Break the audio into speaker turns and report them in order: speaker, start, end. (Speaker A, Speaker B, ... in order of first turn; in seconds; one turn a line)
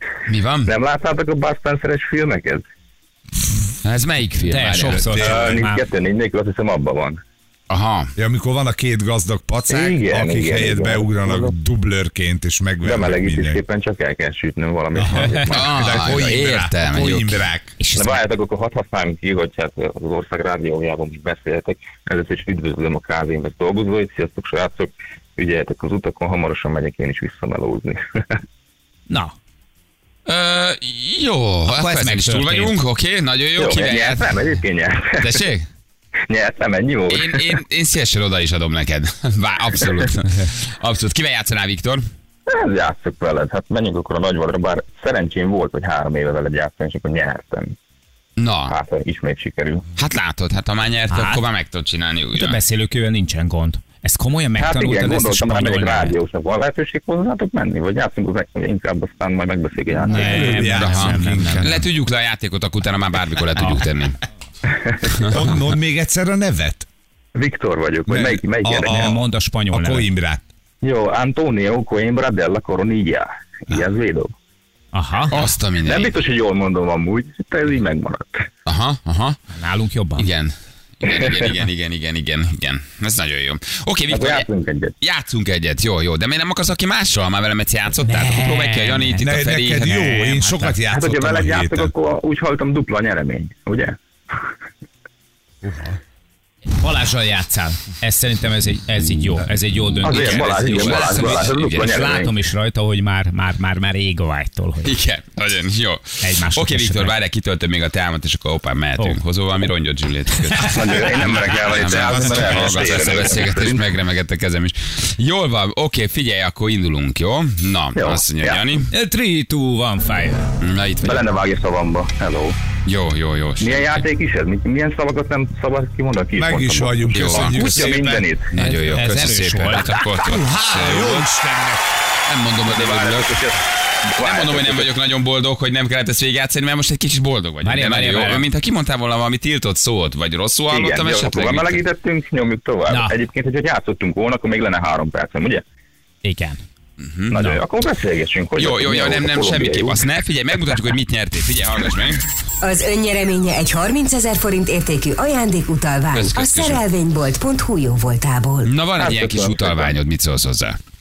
Speaker A: 0.3-0.7
Speaker B: 0.7-2.6
Speaker A: 3.8-5.2
Speaker C: 4.5-5.8
Speaker D: 4.9-5.5
Speaker B: 5.2-7.2
Speaker A: 7.7-8.1
Speaker D: 8.2-13.6
Speaker B: 9.7-11.5
Speaker B: 12.8-15.8
Speaker D: 15.0-17.8
Speaker C: 15.1-15.5
Speaker A: 15.5-17.4
Speaker C: 17.8-18.2
Speaker B: 17.9-28.2
Speaker C: 29.1-29.4
Speaker A: 30.3-34.3
Speaker C: 31.7-32.7
Speaker B: 33.6-35.3
Speaker A: 35.2-35.7
Speaker B: 36.3-37.5
Speaker A: 37.1-42.1
Speaker B: 42.5-47.8
Speaker A: 48.4-48.8
Speaker B: 48.7-49.9
Speaker A: 50.0-52.6
Speaker C: 51.1-51.4
Speaker C: 52.4-56.2
Speaker B: 54.6-60.6
Speaker C: 60.0-61.8
Speaker D: 60.1-61.9
Speaker A: 60.7-64.2
Speaker B: 64.7-65.2
Speaker A: 65.1-65.4
Speaker D: 65.2-66.9
Speaker B: 67.4-69.1
Speaker D: 68.1-70.5
Speaker C: 68.8-70.1
Speaker B: 70.8-74.3
Speaker C: 74.9-75.5
Speaker A: 75.3-76.2
Speaker B: 75.8-78.5
Speaker A: 78.7-79.4
Speaker C: 79.5-80.3
Speaker A: 80.2-84.5
Speaker B: 81.1-81.3
Speaker B: 84.1-84.9
Speaker A: 85.0-90.1
Speaker C: 88.0-90.8
Speaker D: 89.2-91.9
Speaker B: 90.9-94.0
Speaker D: 95.6-96.0
Speaker C: 96.8-105.0
Speaker A: 100.0-102.1
Speaker B: 100.0-102.3
Speaker A: 104.8-118.9
Speaker C: 106.2-107.2
Speaker C: 110.5-111.1
Speaker B: 110.6-113.8
Speaker D: 112.1-112.5
Speaker B: 118.0-118.6
Speaker C: 118.9-120.5
Speaker A: 120.6-121.2
Speaker B: 121.0-122.6
Speaker A: 122.9-124.0
Speaker B: 123.6-128.5
Speaker D: 126.4-128.3
Speaker A: 127.1-127.9
Speaker A: 128.5-131.3
Speaker C: 128.6-130.2
Speaker D: 130.2-131.9
Speaker A: 132.3-133.4
Speaker B: 132.7-134.9
Speaker A: 134.2-141.8
Speaker C: 137.6-138.4
Speaker B: 140.7-145.6
Speaker C: 142.9-143.2
Speaker C: 146.2-146.6
Speaker A: 147.0-147.5
Speaker B: 147.3-150.0
Speaker A: 148.6-152.2
Speaker E: 152.6-158.7
Speaker A: 156.1-156.8
Speaker A: 158.6-160.8
Speaker B: 159.0-159.9